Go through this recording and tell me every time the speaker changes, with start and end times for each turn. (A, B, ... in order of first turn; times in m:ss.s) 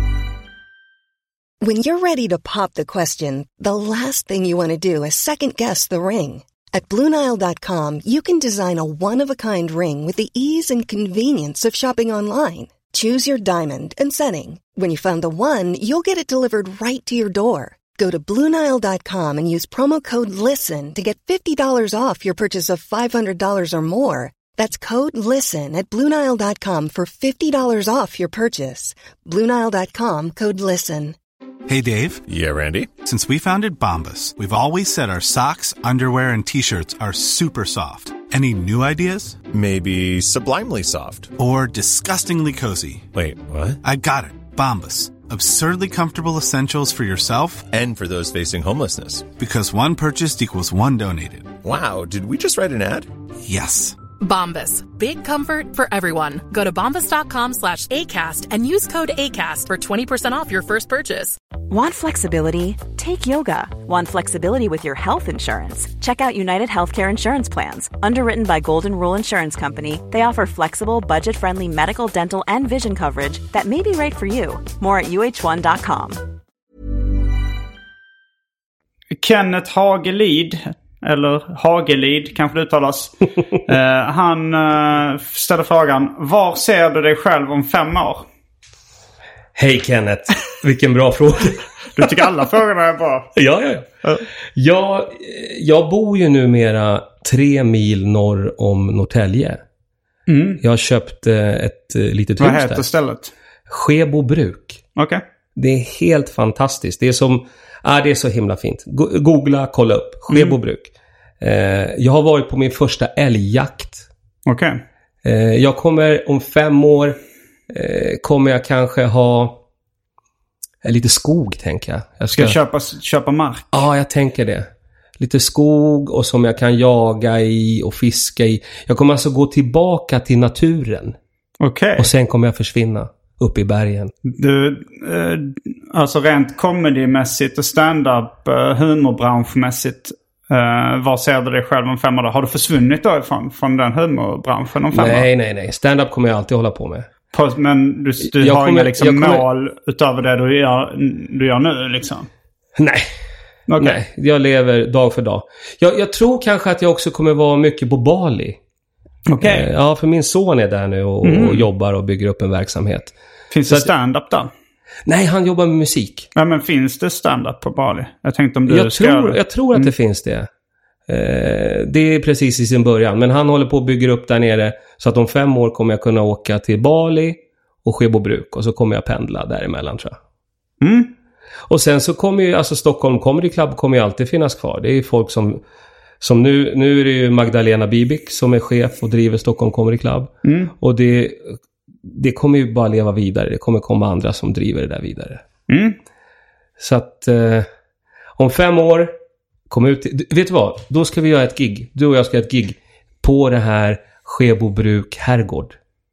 0:01.6-0:31.2 A
0:31.7-0:32.2 B
0:32.3-0:32.9 C
0:33.0-0:39.4 B
0:39.5-0:41.3 C
0:41.4-0:43.1 B
0:43.1-0:43.8 C
0:43.8-0:47.7 B
0:47.7-0:49.3 C
0:49.4-0:51.5 B
0:51.6-0:53.1 C
0:53.4-0:54.0 B
0:54.2-1:01.4 D
1:01.7-1:16.2 E
1:19.2-1:28.2 F
1:29.5-1:32.0 G
1:32.0-1:33.3 F
1:33.3-1:33.9 G
1:34.5-1:39.6 G
1:40.3-1:40.6 F
1:40.6-1:42.8 G
1:42.4-1:43.3 F
1:43.7-1:44.8 G
1:45.0-1:45.2 F
1:45.6-1:54.1 G
1:50.3-1:50.6 F
1:54.4-1:54.8 F
1:55.2-1:57.2 G
1:57.7-1:59.6 G
2:00.8-2:02.6 G
2:02.3-2:03.7 F
2:03.7-2:11.2 G
2:11.6-2:12.1 F
2:12.0-2:14.1 G
2:14.2-2:25.3 F
2:24.9-2:27.1 G
2:27.3-2:32.3 F
2:28.3-2:29.4 G
2:32.8-2:33.1 G
2:33.7-2:34.0 F
2:33.8-2:38.6 G
2:39.3-2:39.7 F
2:39.4-2:43.1 G
2:41.2-2:41.6 F
2:43.5-2:44.5 F
2:45.0-2:46.3 G
2:46.3-2:49.9 F
2:48.7-2:50.5 G
2:51.1-3:00.2 G
3:00.8-3:01.1 F
3:01.7-3:05.6 G
3:06.2-3:15.4 G
3:10.4-3:10.7 F
3:15.7-3:16.0 F
3:16.8-3:17.7 G
3:18.4-3:19.1 G
3:19.7-3:25.8 G